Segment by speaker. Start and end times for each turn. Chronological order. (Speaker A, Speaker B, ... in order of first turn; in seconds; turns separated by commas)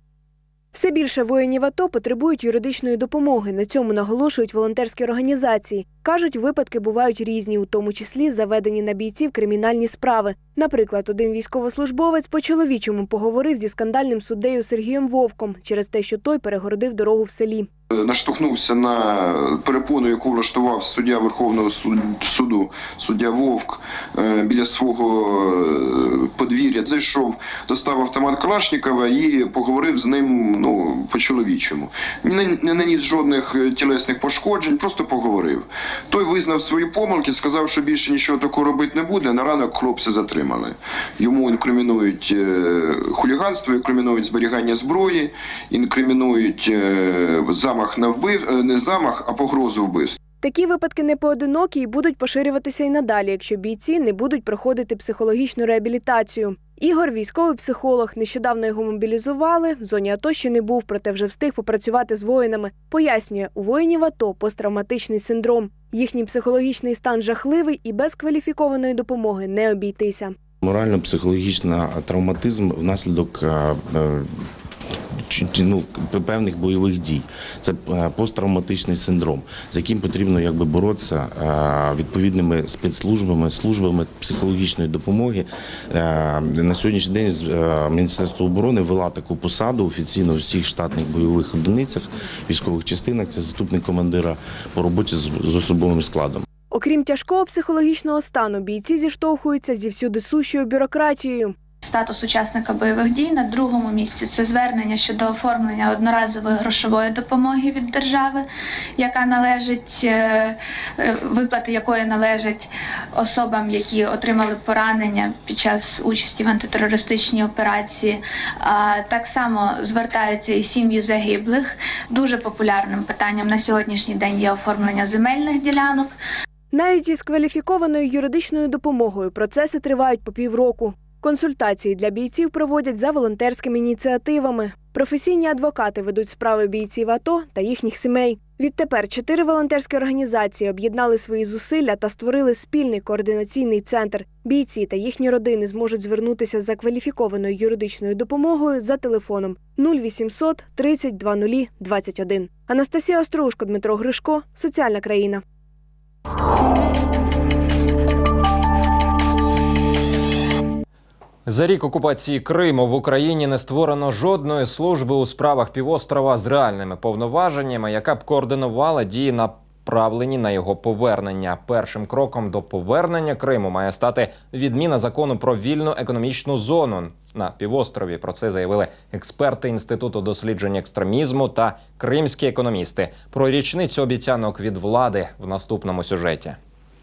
Speaker A: 0.7-17.7, Speaker B: 17.9-50.2, Speaker A: 50.4-70.3, Speaker C: 70.6-74.3, Speaker C: 75.3-96.4, Speaker A: 96.7-101.5, Speaker D: 101.8-126.2, Speaker A: 126.7-155.4, Speaker E: 161.5-186.6